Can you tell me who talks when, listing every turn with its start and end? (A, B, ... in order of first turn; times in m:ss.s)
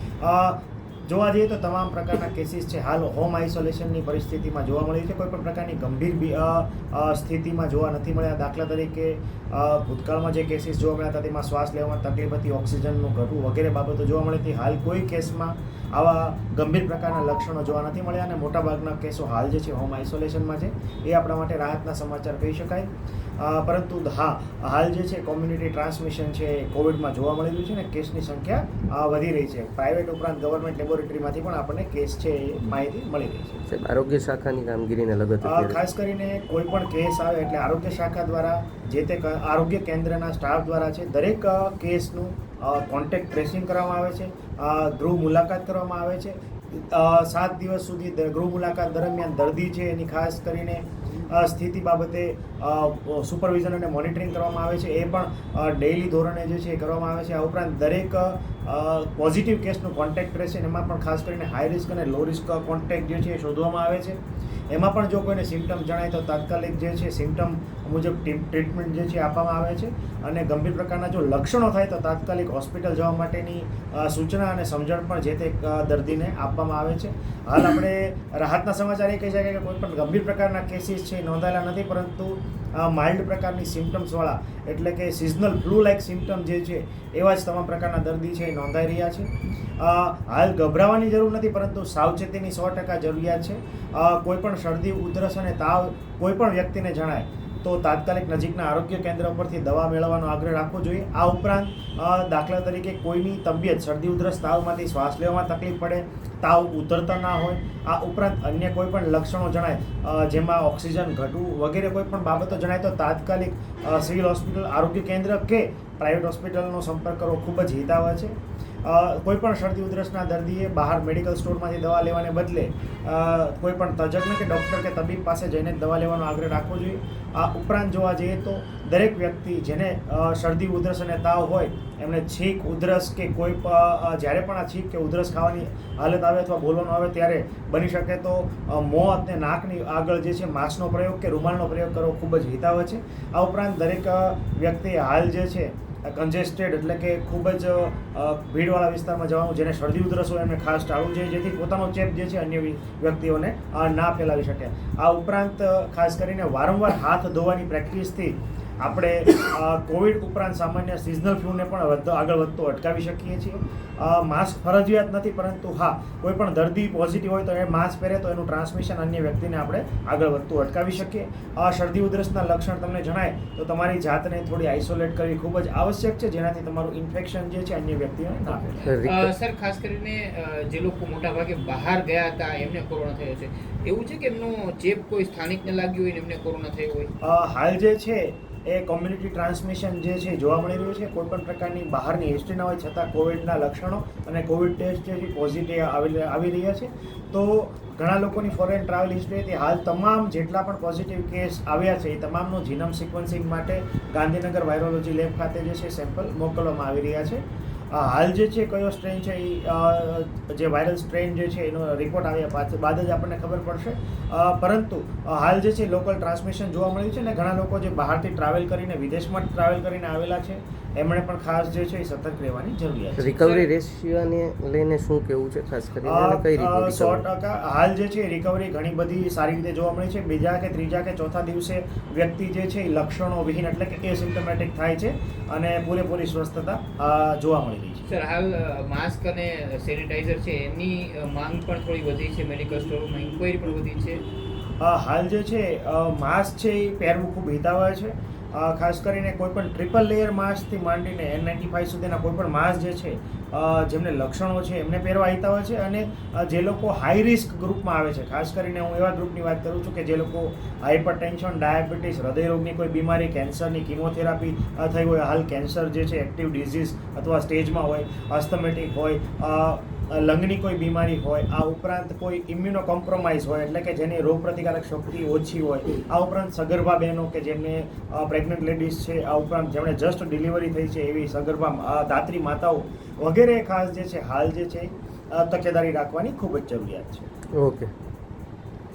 0:00.2-0:33.6 A
0:33.7-0:35.8 B
0:35.4-1:04.2 A
1:04.7-2:58.8 A
2:58.8-3:07.1 C
2:58.8-2:59.3 B
3:07.2-3:43.5 A
3:43.2-3:47.3 B
3:46.0-3:58.0 A
3:58.1-4:04.2 C
4:04.8-4:47.3 A
4:47.6-4:47.9 B